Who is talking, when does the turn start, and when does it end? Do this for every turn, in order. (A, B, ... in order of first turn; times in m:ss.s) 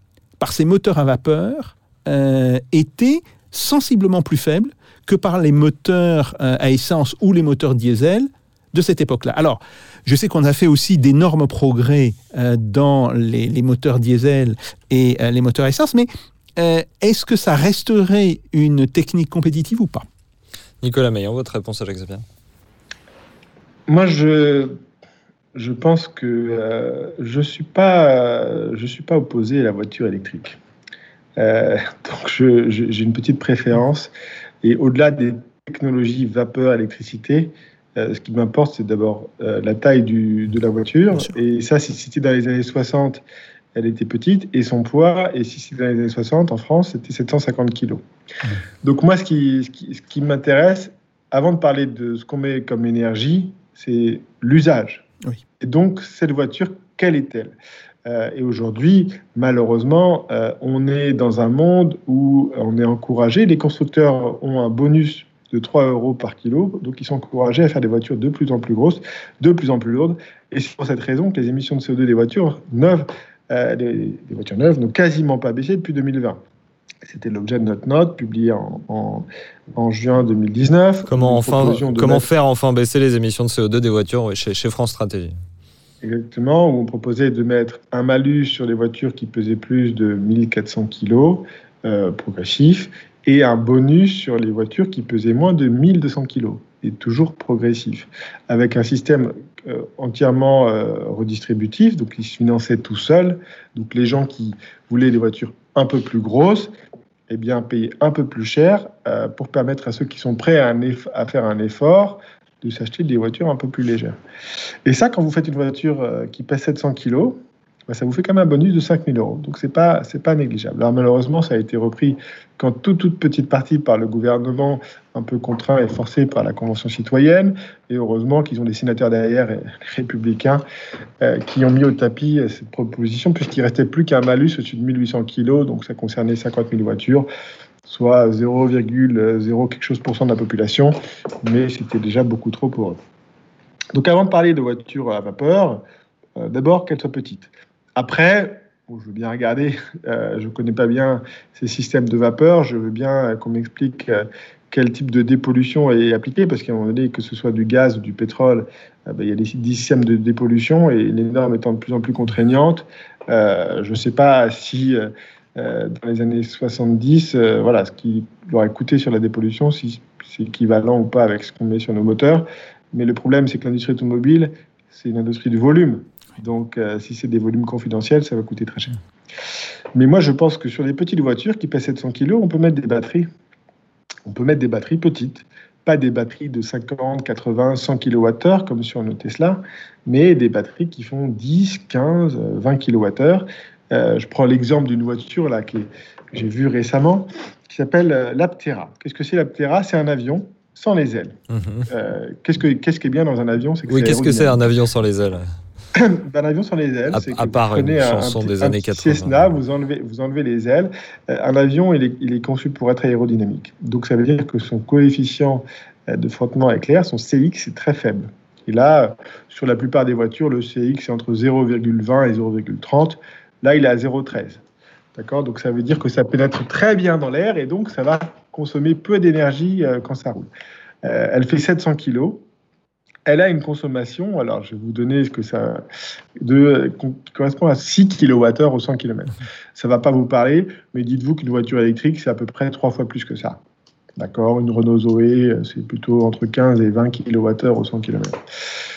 0:00.4-0:20.0 A
0:20.8-0:22.2 B
0:23.9-0:24.8 C
0:25.5-0:30.6 C
0:31.4-0:34.1 C
0:34.6-0:43.2 C
0:43.7-0:48.0 C
0:48.8-0:55.0 C
0:55.6-0:57.5 C
0:58.0-1:16.4 C
1:17.0-1:22.2 C
1:21.1-1:25.4 B
1:26.0-1:46.7 C
1:47.3-1:54.2 C
1:54.8-2:10.6 C
2:11.2-2:17.3 C
2:17.8-2:23.0 C
2:23.9-2:25.8 C
2:26.4-2:59.0 C
2:59.9-3:03.2 C
3:04.2-3:21.4 C
3:21.5-3:21.9 B
3:21.9-3:24.7 C
3:23.9-3:25.5 B
3:25.9-3:44.6 C
3:27.1-3:29.6 B
3:45.1-3:50.5 C
3:51.0-3:52.4 C
3:53.2-3:55.8 C
3:56.4-4:03.6 C
4:04.2-4:08.4 C